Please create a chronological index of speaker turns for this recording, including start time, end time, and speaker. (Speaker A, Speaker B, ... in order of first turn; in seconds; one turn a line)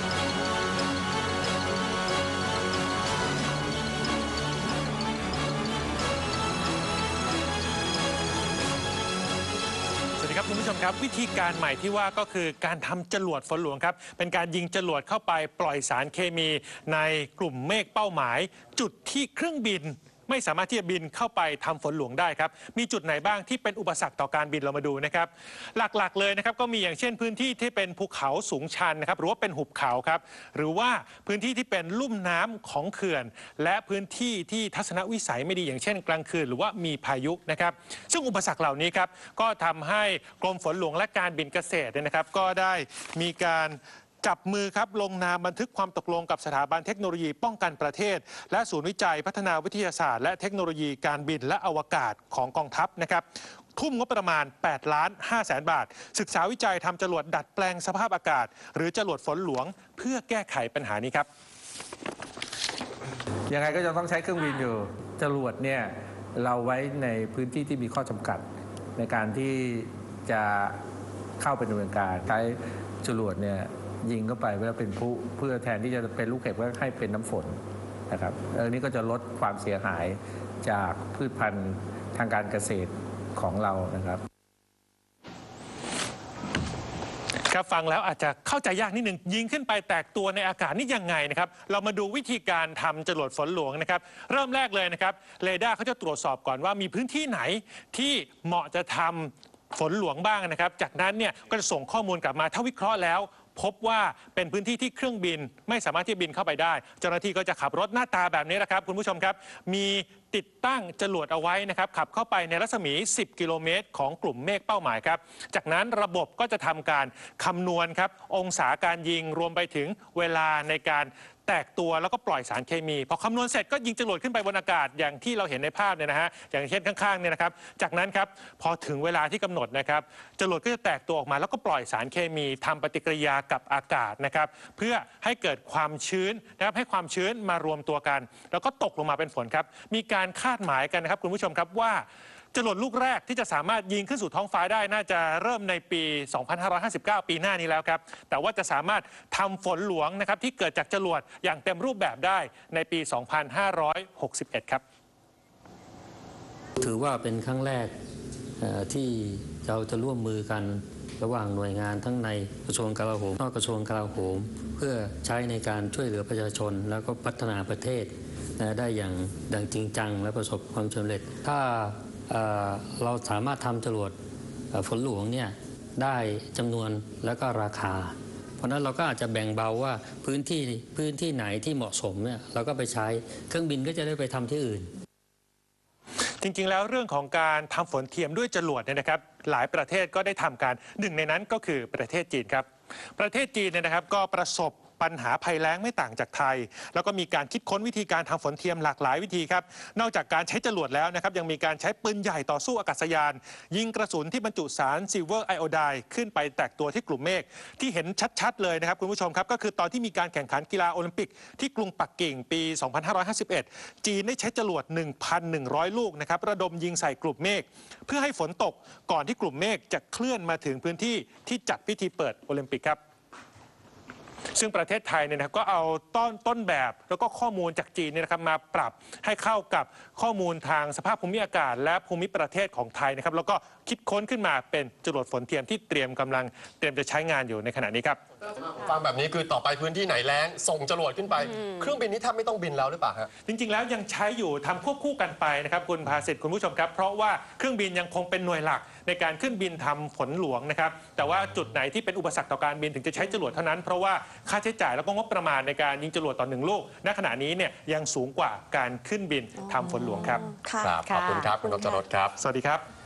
Speaker A: 10.2-61.3
Speaker B: 63.5-68.5
Speaker B: 69.0-70.8
Speaker B: 71.4-77.6
Speaker B: 78.1-84.2
Speaker A: 87.5-154.8
Speaker C: 156.8-157.9
Speaker C: 158.6-174.2
Speaker C: 174.7-184.9
Speaker A: 186.4-223.0
Speaker A: 224.5-238.2
Speaker D: 238.4-243.3
Speaker A: 243.5-260.4
Speaker E: 259.6-262.0
Speaker D: 260.8-262.4
Speaker A: 262.4-262.8